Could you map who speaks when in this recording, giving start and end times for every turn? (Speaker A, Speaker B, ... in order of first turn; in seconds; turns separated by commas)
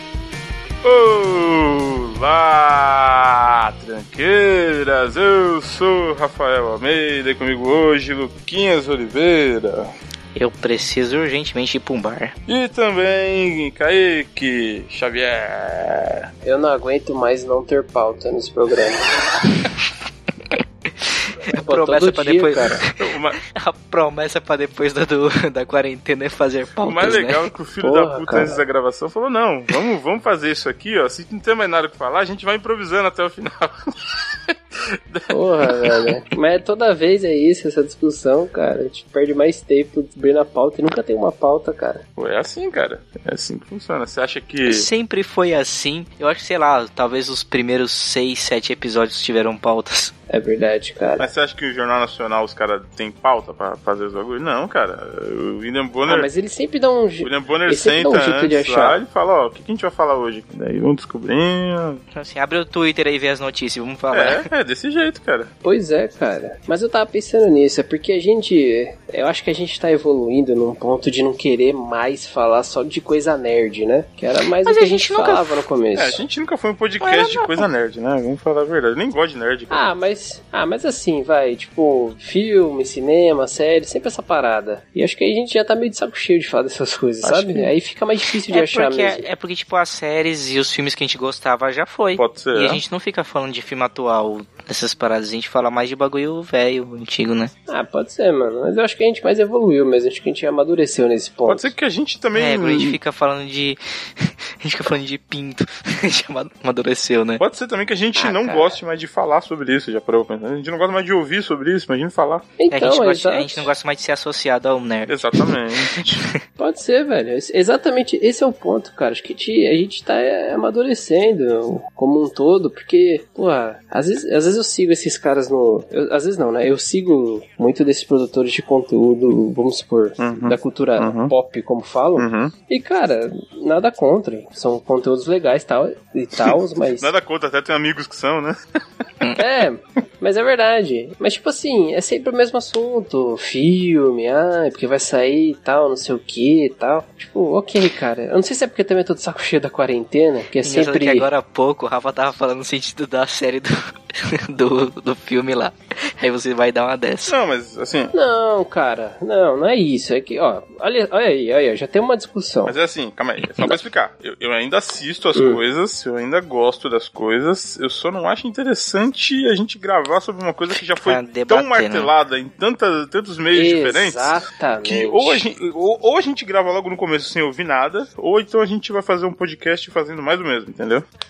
Speaker A: 0.8-9.9, Speaker B: 10.3-12.3, Speaker A: 12.5-16.3, Speaker C: 16.4-19.1, Speaker B: 21.0-27.5, Speaker C: 21.5-22.9, Speaker A: 22.9-23.4, Speaker A: 26.8-34.6, Speaker C: 27.8-28.6, Speaker A: 35.1-36.1, Speaker C: 35.3-42.0, Speaker A: 42.2-44.9, Speaker B: 44.7-50.1, Speaker C: 50.3-51.3, Speaker A: 51.2-56.3, Speaker C: 56.0-59.0, Speaker A: 57.2-62.0, Speaker B: 62.1-64.5, Speaker A: 64.1-65.5, Speaker C: 65.6-76.2, Speaker B: 74.6-75.7, Speaker A: 76.0-79.8, Speaker B: 77.0-77.7, Speaker C: 79.7-89.3, Speaker A: 87.2-87.7, Speaker B: 88.5-97.5, Speaker A: 92.2-92.8, Speaker C: 97.7-101.7, Speaker A: 101.5-103.0, Speaker B: 102.3-107.4, Speaker A: 107.4-112.5, Speaker B: 108.2-108.7, Speaker C: 112.6-113.7, Speaker B: 112.7-115.5, Speaker A: 115.1-116.2, Speaker C: 116.6-137.1, Speaker A: 130.2-131.3, Speaker A: 132.2-132.5, Speaker A: 136.4-139.1, Speaker C: 139.4-151.3, Speaker B: 150.6-157.3, Speaker A: 157.3-158.1, Speaker C: 158.1-162.8, Speaker A: 162.7-181.1, Speaker C: 165.3-165.6, Speaker B: 171.0-172.1, Speaker C: 173.5-175.4